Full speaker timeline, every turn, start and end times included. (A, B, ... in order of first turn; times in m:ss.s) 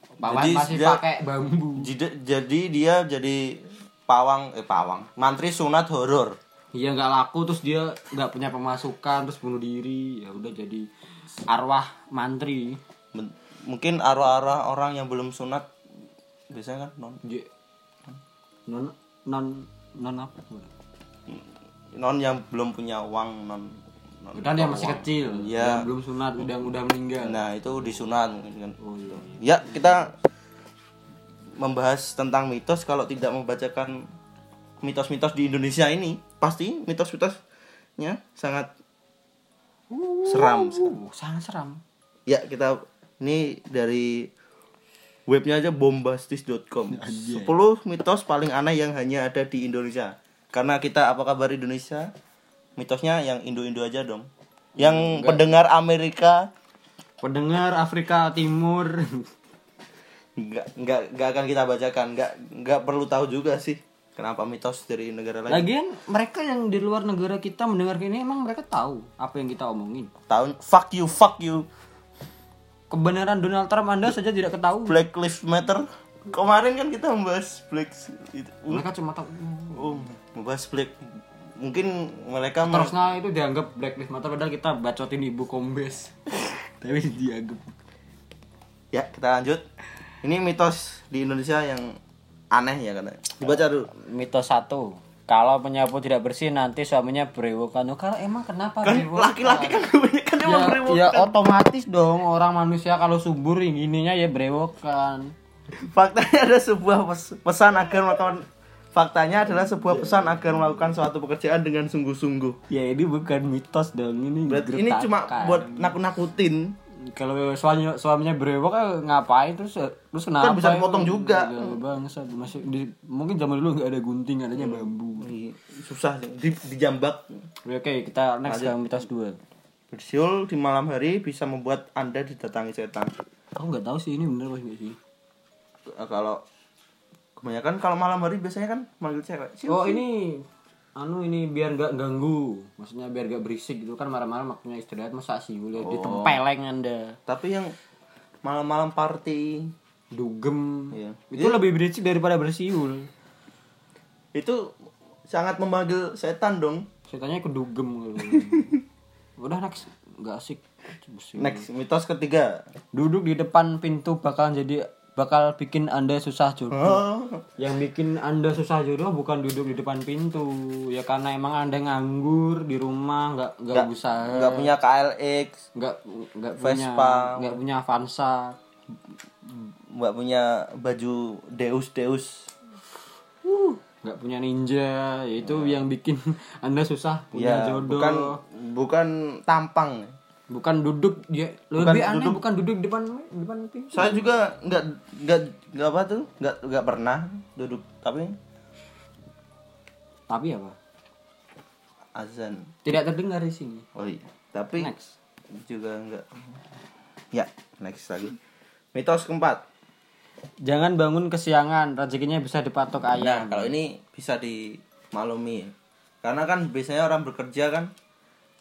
0:00.2-0:01.9 A
0:00.2-0:01.0 B
0:01.8-0:06.4 B
0:06.8-0:10.9 A
0:11.5-0:12.8 A
0:13.1-0:15.7 B
0:16.5-0:17.2 B
0:17.2-0:17.5 A
0:18.7-0:20.7 A
0:21.3-0:25.9 B
0:24.4-0:27.4 A
0:27.2-0:30.2 B
0:28.8-0:29.7 A
0:31.6-0:34.1 B
0:34.8-0:37.4 B
0:38.0-0:38.7 B
0:39.9-0:41.8 A
0:40.2-0:41.0 B
0:42.3-0:44.3 B
0:45.3-0:52.1 B
0:46.9-0:47.6 A
0:52.8-0:56.5 B
0:54.8-0:55.5 A
0:57.2-0:59.3 A
1:00.4-1:05.7 B
1:05.5-1:10.1 A
1:10.3-1:11.7 B
1:12.9-1:15.0 A
1:14.9-1:18.8 B
1:18.7-1:20.1 A
1:19.7-1:21.0 B
1:21.6-1:22.9 B
1:22.6-1:27.7 A
1:28.9-1:29.6 B
1:30.2-1:32.0 B
1:32.5-1:33.9 B
1:33.9-1:39.9 A
1:38.8-1:41.4 B
1:40.4-1:45.3 A
1:45.7-1:52.6 B
1:52.7-1:56.0 A
1:54.5-1:56.8 B
1:57.0-2:05.3 A
2:00.4-2:01.8 B
2:04.6-2:07.4 B
2:07.6-2:09.4 A
2:08.5-2:08.8 B
2:09.9-2:13.2 B
2:13.6-2:15.0 A
2:15.9-2:16.4 B
2:17.4-2:20.0 B
2:19.7-2:20.4 A
2:21.0-2:27.2 A
2:25.8-2:26.4 B
2:27.3-2:27.7 B
2:28.4-2:29.7 B
2:30.1-2:33.1 A
2:30.9-2:31.6 B
2:34.3-2:34.7 B
2:35.3-2:36.9 B
2:37.1-2:38.8 A
2:39.4-2:41.7 A
2:41.4-2:42.7 B
2:42.9-2:47.0 A
2:46.7-2:47.4 B
2:47.6-2:54.7 A
2:53.7-2:55.6 B
2:55.8-2:58.6 A
2:56.6-2:57.6 B
2:59.5-3:02.5 B
3:03.4-3:08.4 A
3:05.4-3:05.8 B
3:07.3-3:10.1 B
3:10.5-3:14.3 A
3:11.8-3:12.4 B
3:13.9-3:18.3 B
3:20.3-3:20.8 A
3:22.2-3:22.7 B
3:22.8-3:23.9 A
3:24.0-3:24.9 B
3:24.8-3:25.2 A
3:25.5-3:26.6 B
3:27.3-3:28.4 B
3:28.9-3:29.6 B
3:30.6-3:33.7 A
3:33.1-3:37.9 B